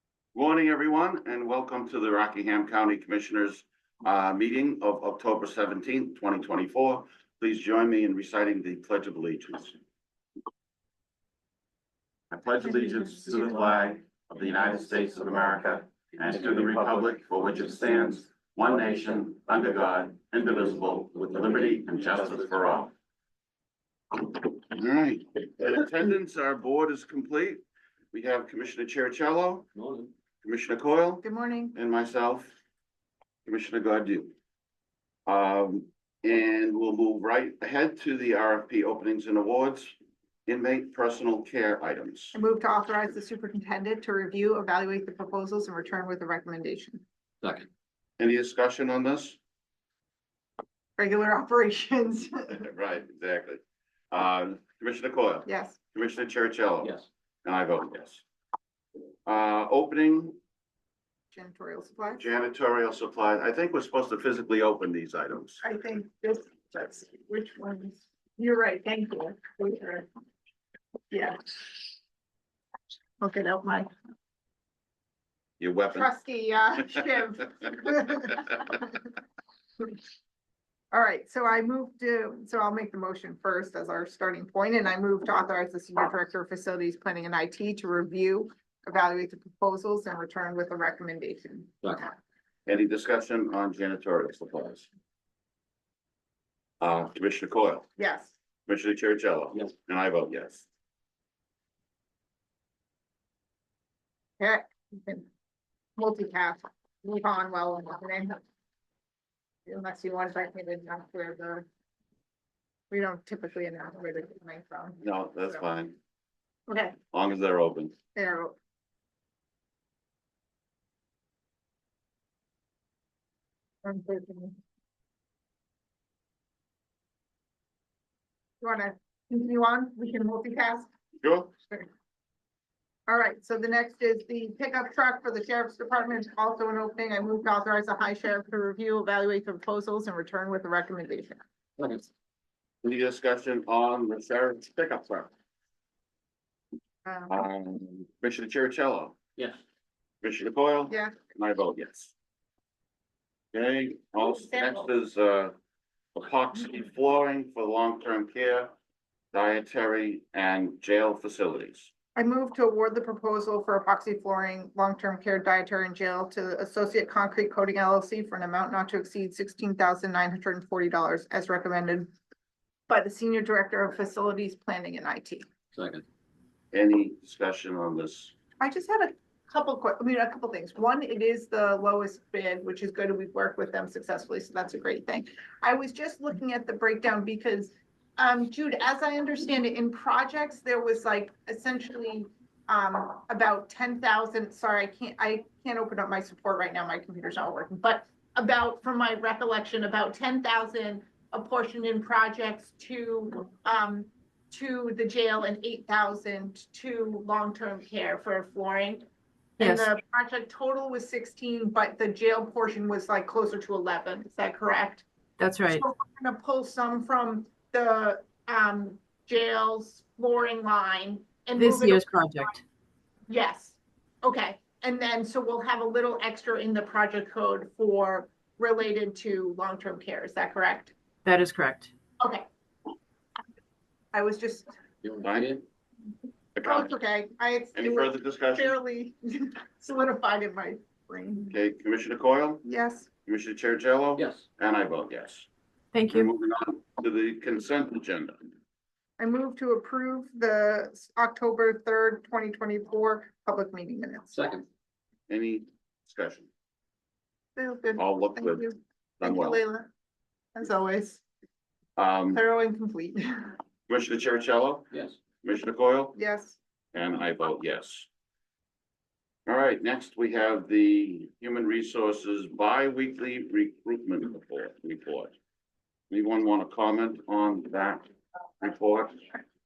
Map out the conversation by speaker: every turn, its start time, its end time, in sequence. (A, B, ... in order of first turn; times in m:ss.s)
0:00.3-0:09.8 A
0:12.3-0:22.9 A
0:24.1-0:29.7 A
0:29.8-0:30.1 B
0:30.4-0:31.2 A
0:31.2-0:31.7 C
0:31.7-0:32.5 A
0:33.4-0:34.3 A
0:35.2-0:39.9 A
0:40.5-0:42.4 A
0:42.3-0:47.0 C
0:47.4-0:47.7 B
0:48.2-0:49.4 A
0:51.0-0:52.7 C
0:52.6-0:58.2 A
0:55.4-0:55.8 C
0:59.2-1:00.4 A
1:01.3-1:02.3 C
1:02.2-1:05.6 A
1:05.6-1:10.1 C
1:11.1-1:11.8 C
1:13.2-1:13.9 C
1:15.6-1:16.1 A
1:15.9-1:19.0 C
1:20.9-1:32.2 C
1:32.6-1:34.9 A
1:36.8-1:37.9 A
1:38.0-1:38.3 C
1:38.7-1:40.7 A
1:44.4-1:45.3 C
1:46.0-1:48.4 C
1:49.6-1:51.7 C
1:52.9-1:55.6 C
1:55.0-1:56.0 A
1:56.7-1:57.0 C
1:57.1-1:57.9 A
1:58.1-1:58.6 C
2:03.8-2:04.6 C
2:08.6-2:10.9 C
2:11.2-2:11.5 A
2:13.1-2:21.4 C
2:21.8-2:22.1 B
2:22.8-2:25.3 A
2:27.0-2:27.4 C
2:27.3-2:29.2 A
2:30.2-2:32.1 A
2:30.9-2:31.1 C
2:33.5-2:35.5 A
2:34.2-2:34.9 C
2:36.1-2:38.7 A
2:39.3-2:41.9 A
2:42.1-2:52.1 C
2:52.9-2:55.5 C
2:55.7-2:56.0 B
2:56.7-2:58.3 A
2:58.6-3:35.0 C
3:29.6-3:29.9 D
3:35.4-3:35.8 D
3:35.6-3:42.0 C
3:41.6-3:42.6 D
3:43.3-3:50.9 C
3:51.2-3:51.9 D
3:52.2-3:52.4 C
3:54.1-3:54.7 C
3:55.0-3:55.6 B
3:55.2-3:55.6 A
3:56.5-3:56.9 A
3:56.6-4:01.5 C
3:57.7-3:58.8 A
4:01.5-4:02.6 A
4:02.6-4:03.1 C
4:03.2-4:05.5 A
4:04.2-4:04.4 B
4:05.9-4:06.3 D
4:06.1-4:08.4 A
4:09.2-4:14.3 C
4:14.3-4:14.6 B
4:15.3-4:16.5 A
4:17.6-4:19.9 C
4:18.0-4:18.6 A
4:19.2-4:19.6 A
4:20.5-4:21.2 C
4:22.0-4:22.4 A
4:22.3-4:23.6 C
4:23.9-4:26.2 A
4:26.1-4:26.6 C
4:26.9-4:28.1 A
4:29.4-4:35.3 A
4:36.1-4:38.0 A
4:38.6-4:39.2 A